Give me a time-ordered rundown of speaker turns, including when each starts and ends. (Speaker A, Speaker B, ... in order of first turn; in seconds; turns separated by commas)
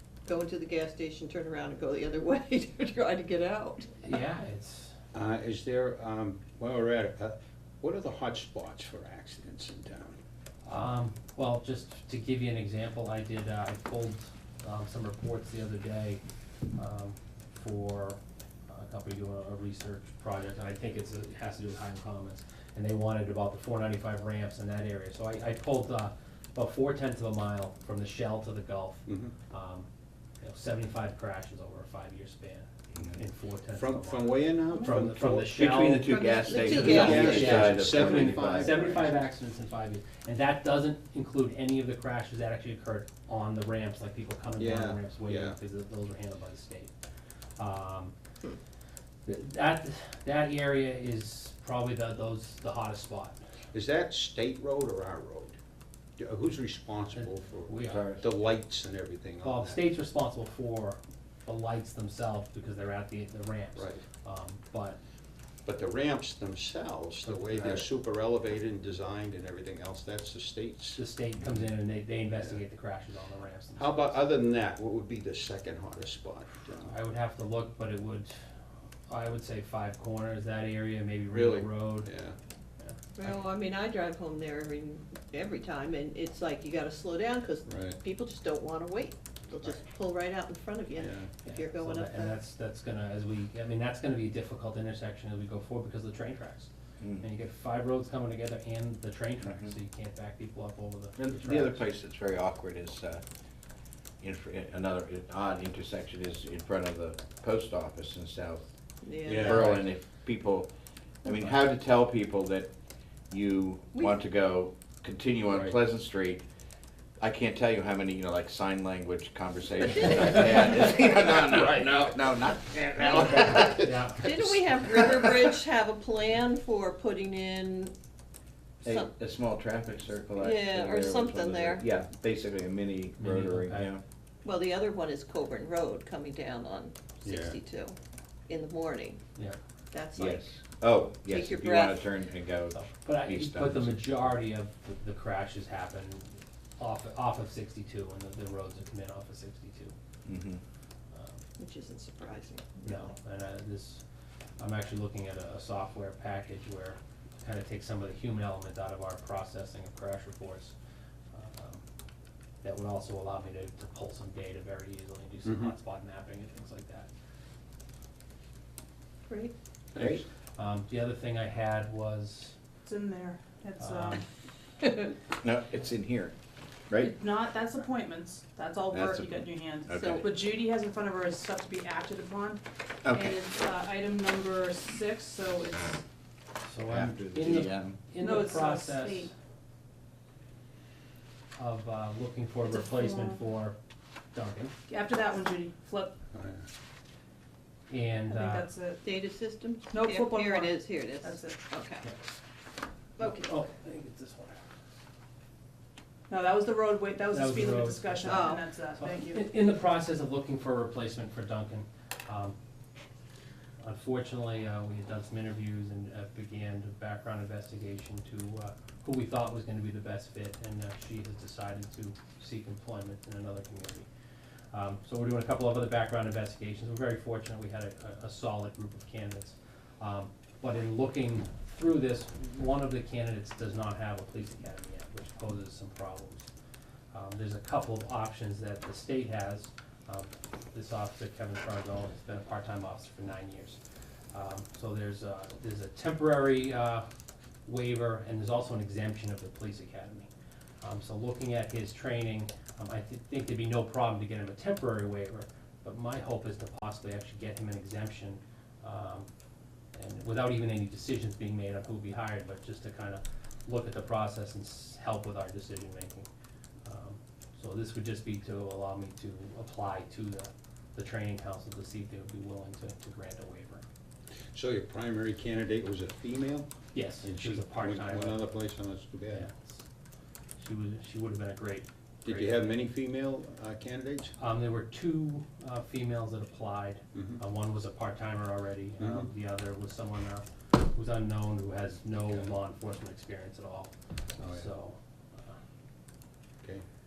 Speaker A: 0.2-3.9, Speaker B: 4.0-4.9, Speaker C: 5.1-10.2, Speaker B: 10.6-16.2, Speaker B: 16.7-29.9, Speaker C: 29.1-29.3, Speaker B: 30.4-46.9, Speaker C: 33.7-35.5, Speaker A: 34.7-35.0, Speaker D: 35.4-38.9, Speaker A: 36.0-37.6, Speaker C: 36.6-39.0, Speaker C: 44.5-45.6, Speaker B: 47.6-48.1, Speaker B: 49.2-53.4, Speaker C: 53.7-55.6, Speaker C: 56.2-59.8, Speaker B: 57.1-58.1, Speaker D: 57.8-58.2, Speaker B: 59.4-65.0, Speaker C: 63.8-64.0, Speaker C: 65.6-71.0, Speaker B: 67.2-67.8, Speaker B: 71.0-74.2, Speaker C: 73.8-76.9, Speaker B: 76.8-78.3, Speaker B: 79.1-82.1, Speaker C: 81.3-82.3, Speaker A: 83.2-92.3, Speaker C: 87.7-88.0, Speaker C: 91.0-91.3, Speaker B: 91.4-101.9, Speaker D: 99.4-99.7, Speaker D: 101.2-103.2, Speaker D: 104.2-108.7, Speaker A: 109.0-109.6, Speaker C: 109.3-109.8, Speaker D: 109.4-110.7, Speaker D: 111.2-112.7, Speaker D: 113.3-116.4, Speaker C: 115.5-115.7, Speaker D: 117.2-123.9, Speaker A: 119.8-121.0, Speaker C: 123.3-123.7, Speaker B: 123.6-124.4, Speaker A: 124.2-127.9, Speaker D: 128.8-134.0, Speaker A: 128.9-129.1, Speaker A: 130.3-131.8, Speaker B: 133.2-133.9, Speaker A: 134.4-137.9, Speaker C: 137.2-137.6, Speaker A: 138.5-139.2, Speaker A: 139.9-140.5, Speaker D: 140.1-144.0, Speaker A: 141.3-142.1, Speaker B: 142.7-149.9, Speaker D: 150.2-150.6, Speaker B: 151.1-151.4, Speaker A: 151.6-153.1, Speaker B: 152.8-154.0, Speaker B: 154.6-160.7, Speaker B: 161.3-161.8, Speaker B: 162.6-167.1, Speaker C: 165.4-165.7, Speaker C: 169.9-170.2, Speaker D: 169.9-170.2, Speaker B: 170.6-172.6, Speaker E: 172.8-174.2, Speaker B: 173.8-174.2, Speaker D: 175.4-176.3, Speaker E: 177.0-186.0, Speaker D: 178.9-180.3, Speaker A: 180.0-180.3, Speaker D: 183.0-183.4, Speaker B: 186.6-189.3, Speaker D: 186.9-188.0, Speaker E: 188.2-189.3, Speaker B: 191.6-193.8, Speaker E: 192.6-193.4, Speaker B: 194.3-194.7, Speaker E: 194.9-196.2, Speaker C: 196.3-196.6, Speaker B: 197.9-198.7, Speaker E: 198.3-199.1, Speaker A: 199.0-202.1, Speaker E: 199.9-201.6, Speaker A: 203.2-203.5, Speaker B: 203.2-204.6, Speaker E: 206.3-209.4, Speaker B: 207.3-212.6, Speaker A: 208.2-208.6, Speaker B: 213.8-224.1, Speaker B: 224.7-236.5, Speaker B: 237.1-243.8, Speaker B: 244.3-247.0, Speaker B: 247.7-250.3, Speaker B: 250.8-259.3, Speaker B: 259.9-266.3, Speaker B: 266.8-273.8, Speaker C: 274.5-276.7, Speaker B: 276.9-278.4, Speaker C: 277.2-279.5, Speaker B: 279.3-279.8, Speaker B: 280.6-282.8, Speaker C: 282.2-284.3, Speaker B: 284.4-295.5, Speaker C: 287.1-287.4, Speaker C: 289.0-289.3, Speaker C: 294.4-294.7